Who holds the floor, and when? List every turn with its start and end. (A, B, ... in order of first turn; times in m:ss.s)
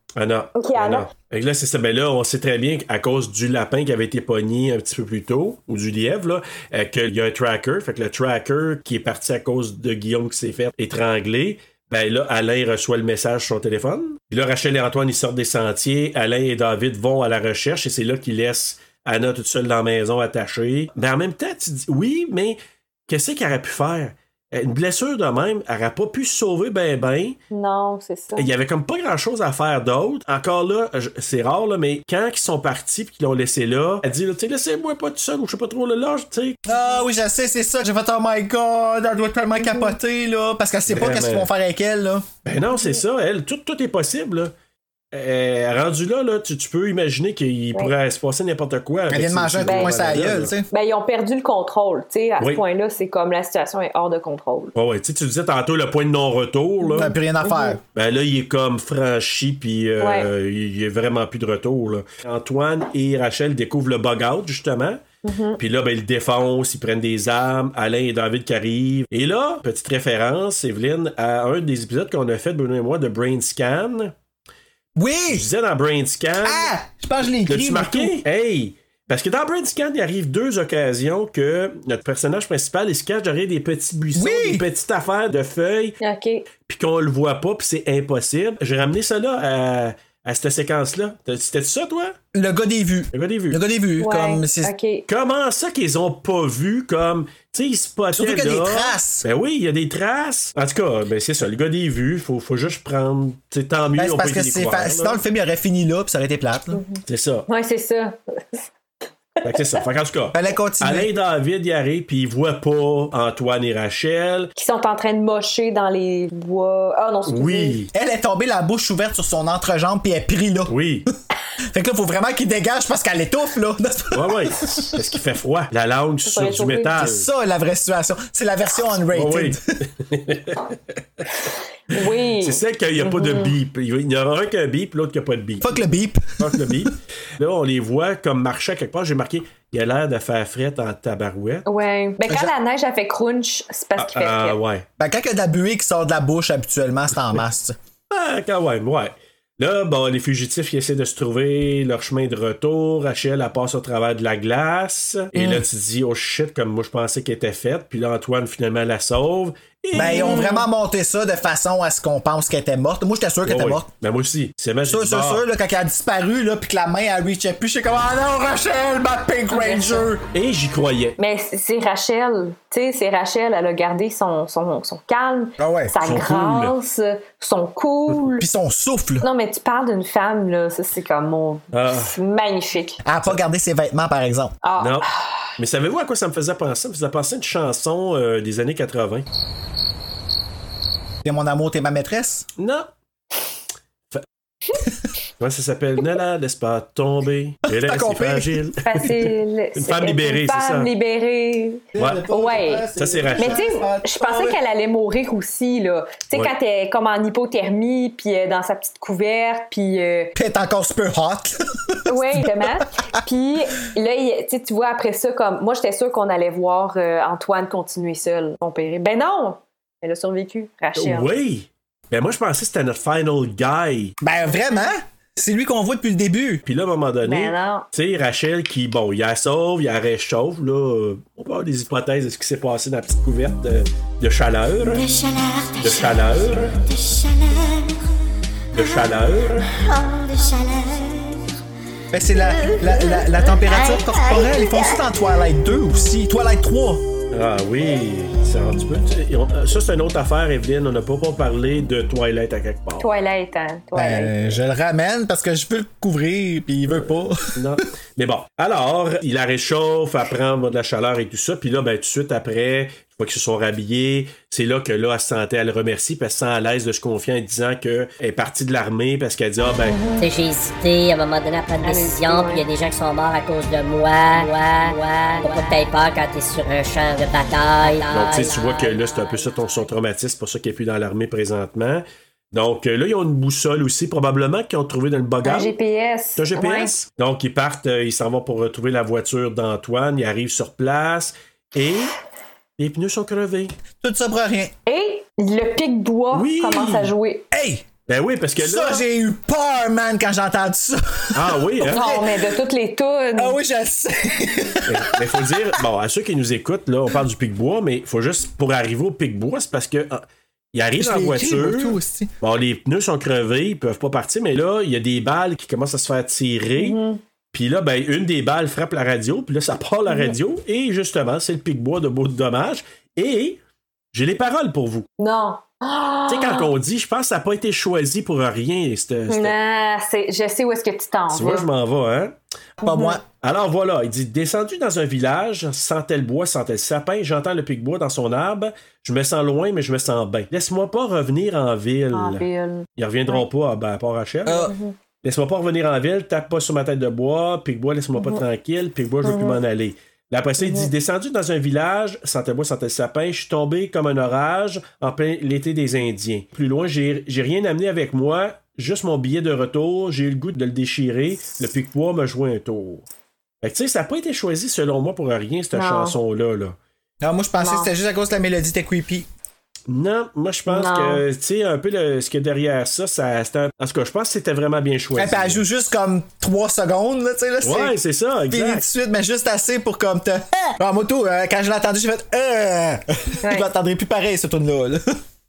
0:00.2-0:27.4 A
0:00.6-0:01.1 B
0:27.5-0:28.5 B
0:28.4-0:36.6 A
0:36.6-0:42.3 C
0:39.6-0:39.9 B
0:40.9-0:41.5 A
0:42.4-0:44.5 A
0:45.1-0:50.5 A
0:49.1-0:50.7 C
0:49.6-0:50.1 B
0:50.7-0:54.7 B
0:54.7-0:57.1 A
0:56.8-0:57.8 B
0:56.9-0:57.8 C
0:57.9-1:05.0 A
1:00.0-1:00.3 B
1:05.2-1:05.6 B
1:05.6-1:14.1 A
1:15.0-1:15.4 C
1:15.3-1:16.7 A
1:16.4-1:18.2 C
1:17.4-1:26.0 A
1:24.1-1:24.6 C
1:26.0-1:26.4 B
1:26.6-1:32.1 A
1:32.3-1:34.7 C
1:33.1-1:33.6 A
1:34.0-1:35.0 B
1:35.1-1:45.2 A
1:38.1-1:39.2 C
1:44.0-1:46.8 C
1:46.7-1:48.6 B
1:47.1-1:47.4 A
1:49.4-1:54.5 A
1:50.3-1:51.1 C
1:54.6-1:57.7 B
1:57.3-1:57.9 A
1:57.9-2:00.7 C
2:00.7-2:01.1 A
2:01.7-2:04.9 C
2:04.1-2:07.3 A
2:06.2-2:06.9 B
2:07.0-2:09.6 C
2:09.1-2:10.8 A
2:11.9-2:13.5 B
2:12.4-2:15.8 A
2:15.6-2:16.9 C
2:16.4-2:21.7 A
2:21.6-2:24.6 B
2:24.0-2:24.8 A
2:25.0-2:27.7 C
2:28.1-2:40.4 A
2:35.3-2:35.6 C
2:39.9-2:43.9 C
2:40.0-2:40.7 B
2:43.4-2:45.4 A
2:44.8-2:50.2 C
2:49.5-2:50.0 B
2:50.3-2:51.2 A
2:51.2-2:58.4 B
2:55.6-2:56.0 C
2:56.0-2:56.7 A
2:58.4-2:59.2 C
2:59.2-3:03.0 B
3:01.7-3:02.1 A
3:03.0-3:04.5 C
3:04.6-3:05.5 B
3:04.8-3:09.2 A
3:11.2-3:12.4 C
3:12.6-3:12.9 A
3:15.4-3:19.2 A
3:17.7-3:18.6 C
3:18.8-3:30.3 B
3:19.8-3:20.9 A
3:21.9-3:24.6 C
3:22.0-3:22.2 A
3:23.0-3:23.6 A
3:30.3-3:32.7 C
3:32.1-3:41.3 B
3:41.0-3:44.1 A
3:44.2-3:46.6 C
3:46.6-3:55.0 A
3:47.2-3:47.9 B
3:54.8-3:58.1 D
3:55.8-3:56.8 A
3:58.7-3:59.7 A
3:58.7-4:01.5 D
4:02.1-4:07.0 C
4:02.2-4:05.1 D
4:07.3-4:13.0 A
4:13.0-4:14.3 B
4:13.9-4:17.4 C
4:16.9-4:30.0 A
4:29.8-4:30.2 B
4:30.1-4:39.8 E
4:31.8-4:32.6 B
4:38.1-4:45.7 A
4:45.4-4:46.9 B
4:46.4-4:52.1 A
4:52.8-4:53.7 A
4:54.0-4:54.7 C
4:54.8-4:57.4 B
4:56.3-4:57.1 A
4:57.5-4:57.9 C
4:58.1-4:59.0 A
4:58.6-5:02.4 C
5:01.3-5:02.0 A
5:01.9-5:03.6 B
5:03.4-5:05.6 C
5:04.9-5:17.0 A
5:11.0-5:12.3 C
5:16.8-5:17.2 B
5:17.5-5:23.6 A
5:20.1-5:20.4 B
5:24.1-5:25.1 A
5:25.2-5:26.7 B
5:26.3-5:29.5 A
5:29.3-5:31.7 B
5:31.3-5:32.3 A
5:32.8-5:33.2 C
5:32.8-5:33.2 B
5:33.3-5:42.4 A
5:42.1-5:43.4 B
5:43.0-5:44.7 A
5:44.5-5:44.7 C
5:44.5-5:44.9 B
5:45.2-6:03.0 A
5:48.2-5:48.4 B
5:49.2-5:49.6 B
5:50.6-5:50.9 B
6:03.6-6:06.8 A
6:05.7-6:06.2 B
6:07.2-6:09.3 C
6:07.6-6:07.9 B
6:09.9-6:15.6 A
6:10.7-6:11.2 B
6:15.2-6:18.0 C
6:17.6-6:18.8 A
6:18.5-6:25.0 C
6:23.4-6:23.7 B